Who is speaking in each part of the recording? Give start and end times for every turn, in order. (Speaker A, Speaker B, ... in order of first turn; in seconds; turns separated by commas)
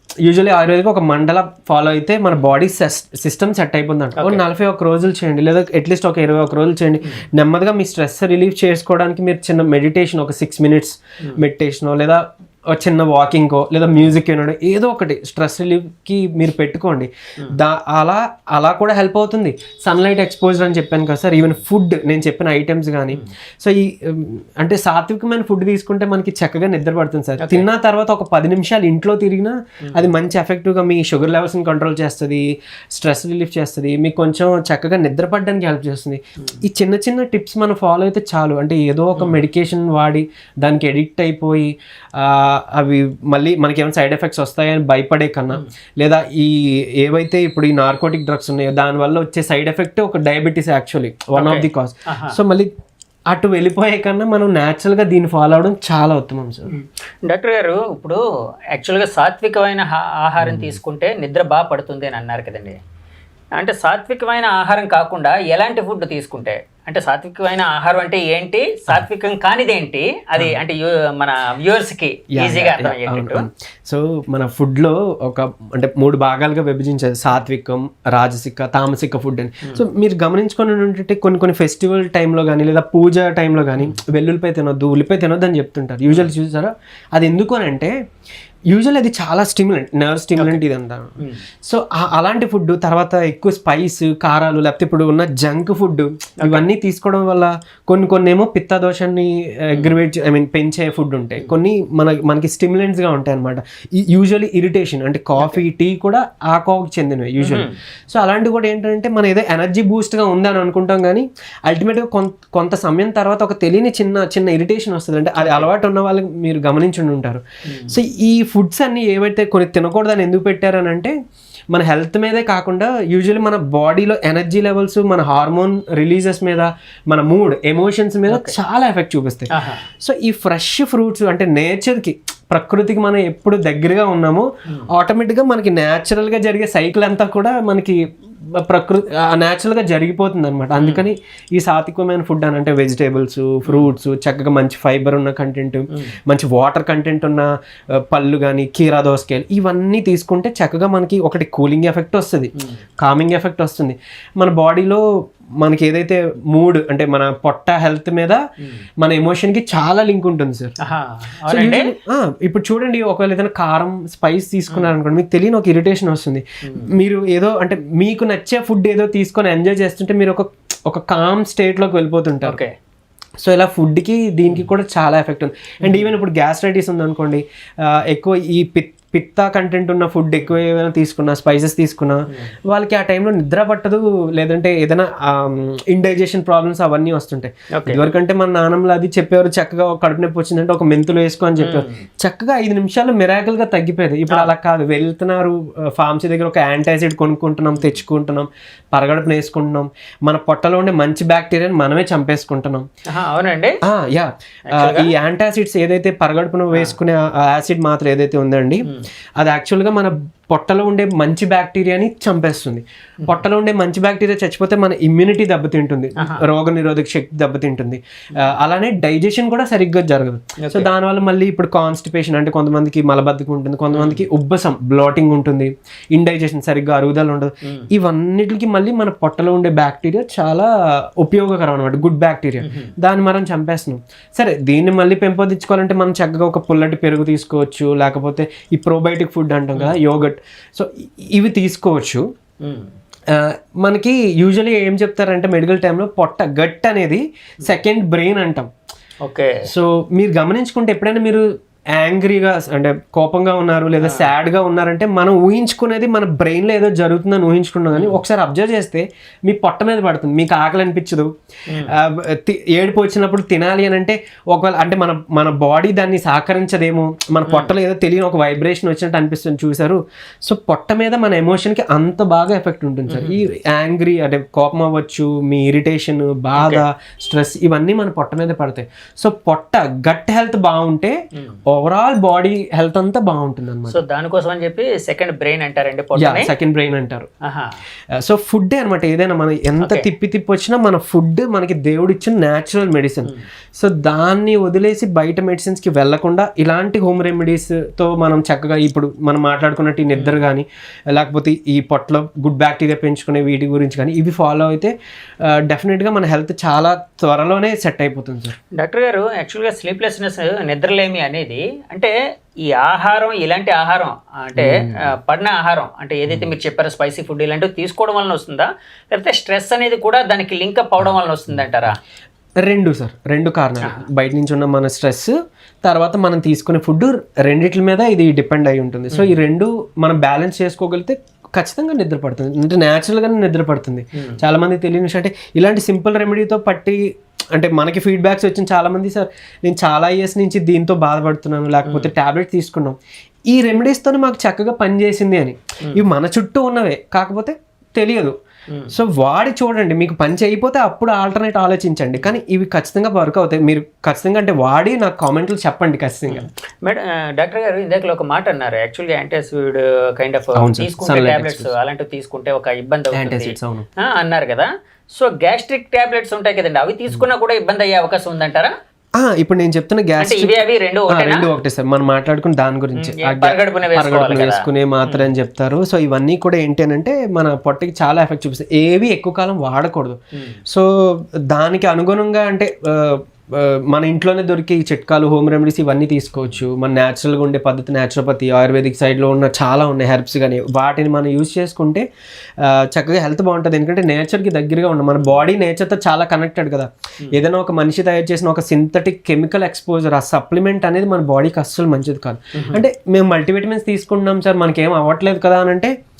Speaker A: 0.2-12.2, Speaker B: 4.2-4.4, Speaker A: 12.7-52.7, Speaker B: 27.4-27.7, Speaker B: 51.4-52.4, Speaker A: 53.3-56.7, Speaker B: 56.7-58.2, Speaker B: 58.7-62.8, Speaker A: 60.4-60.8, Speaker B: 63.6-73.5, Speaker A: 72.3-87.9, Speaker A: 88.7-121.1, Speaker B: 107.4-107.8, Speaker B: 115.4-115.7, Speaker B: 117.7-118.0, Speaker A: 121.7-138.0, Speaker B: 128.3-128.5, Speaker B: 129.5-129.8, Speaker A: 138.6-147.5, Speaker B: 140.8-141.0, Speaker B: 143.7-143.9, Speaker A: 148.1-155.0, Speaker A: 155.6-158.4, Speaker A: 159.0-160.7, Speaker B: 160.8-161.9, Speaker A: 161.5-172.6, Speaker B: 166.7-166.9, Speaker B: 172.4-172.7, Speaker A: 173.4-202.8, Speaker B: 175.8-176.1, Speaker B: 187.8-188.0, Speaker B: 191.6-192.0, Speaker B: 203.1-203.8, Speaker A: 203.8-208.9, Speaker B: 204.7-205.1, Speaker A: 209.4-242.2, Speaker B: 220.6-220.9, Speaker B: 223.9-224.2, Speaker B: 227.6-227.9, Speaker B: 232.6-232.9, Speaker B: 242.6-242.9, Speaker A: 243.3-248.7, Speaker B: 249.2-249.6, Speaker A: 249.6-251.4, Speaker A: 251.9-261.3, Speaker B: 254.0-254.3, Speaker A: 261.9-281.1, Speaker B: 267.5-267.7, Speaker B: 273.1-273.4, Speaker B: 276.6-276.8, Speaker B: 281.4-281.6, Speaker A: 281.7-284.0, Speaker B: 283.9-286.5, Speaker A: 286.2-287.3, Speaker B: 287.4-287.8, Speaker A: 288.2-304.9, Speaker A: 305.5-308.5, Speaker B: 308.8-321.9, Speaker A: 314.6-315.0, Speaker A: 316.3-316.5, Speaker A: 322.6-325.3, Speaker A: 325.8-337.0, Speaker B: 329.1-329.4, Speaker A: 337.5-342.9, Speaker B: 341.9-342.1, Speaker A: 343.5-348.3, Speaker A: 348.9-356.5, Speaker B: 356.3-368.7, Speaker A: 360.6-361.7, Speaker A: 363.1-363.9, Speaker A: 369.2-370.6, Speaker B: 370.2-371.5, Speaker A: 371.1-392.1, Speaker B: 373.0-375.3, Speaker B: 380.3-380.6, Speaker A: 392.6-405.9, Speaker B: 402.6-402.8